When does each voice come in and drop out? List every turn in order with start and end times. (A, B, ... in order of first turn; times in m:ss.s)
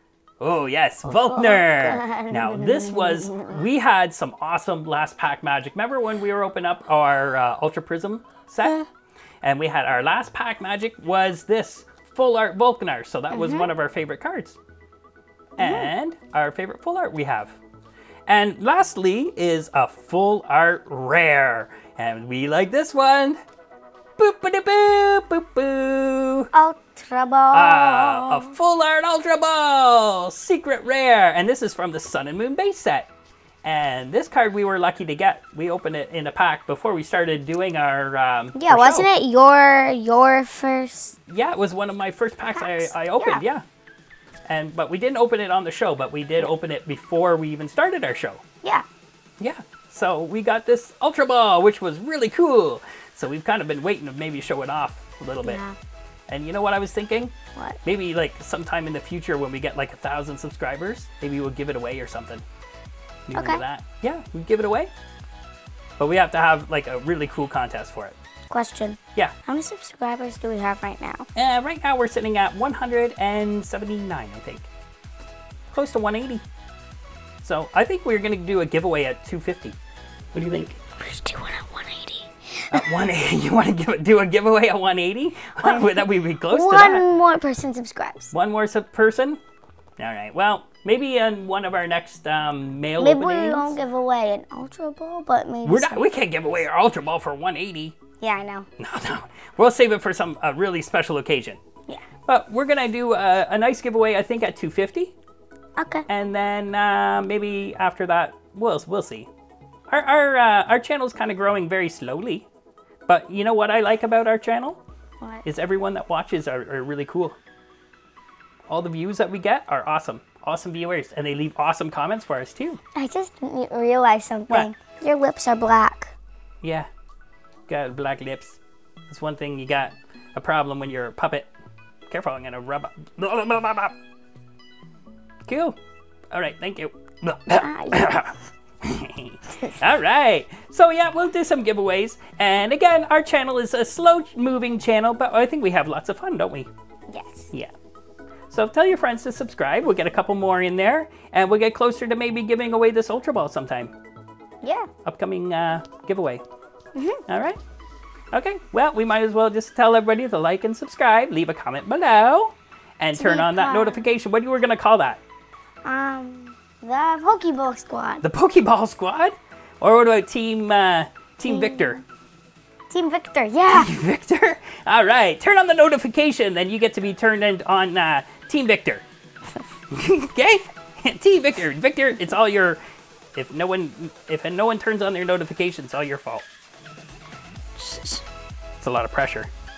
0:00.4-0:08.8 A
0:01.1-0:03.6 B
0:09.4-0:14.6 A
0:13.3-0:13.7 B
0:15.6-0:17.6 A
0:15.6-0:15.9 B
0:18.3-0:23.4 A
0:24.2-0:26.5 A
0:26.5-0:28.5 B
0:27.5-0:33.1 A
0:33.6-0:39.1 A
0:38.5-0:41.2 B
0:41.3-0:43.6 A
0:42.5-0:43.4 B
0:44.5-0:48.4 A
0:49.4-0:55.6 A
0:55.4-0:55.8 B
0:56.3-0:57.3 A
0:57.8-1:02.4 A
1:03.3-1:04.9 A
1:03.3-1:03.6 B
1:06.0-1:08.2 A
1:08.5-1:11.3 B
1:11.3-1:14.7 A
1:15.7-1:16.4 A
1:17.4-1:19.8 A
1:20.3-1:20.8 A
1:21.0-1:22.9 B
1:22.7-1:27.1 A
1:25.6-1:28.3 B
1:28.3-1:29.4 A
1:30.0-1:33.8 A
1:33.0-1:36.1 B
1:35.6-1:38.0 A
1:38.2-1:38.7 B
1:38.8-1:41.6 A
1:42.3-1:45.1 A
1:45.8-1:46.1 B
1:46.1-1:49.3 A
1:49.9-1:52.4 A
1:53.1-1:54.8 A
1:55.4-1:57.4 A
1:58.7-2:02.8 A
2:03.0-2:06.1 B
2:06.6-2:06.9 A
2:07.7-2:11.5 A
2:12.1-2:13.9 A
2:15.4-2:15.8 A
2:16.3-2:26.7 A
2:17.6-2:18.2 B
2:27.1-2:27.5 B
2:28.5-2:33.9 A
2:34.6-2:34.9 B
2:35.0-2:36.4 A
2:36.9-2:37.2 B
2:37.3-2:37.6 A
2:38.3-2:45.2 A
2:43.1-2:44.1 B
2:45.8-2:48.2 B
2:48.2-2:52.0 A
2:51.4-2:52.0 B
2:52.9-2:53.9 B
2:53.7-2:59.0 A
2:59.9-3:02.8 A
3:03.3-3:06.4 A
3:07.8-3:08.2 B
3:08.8-3:09.5 A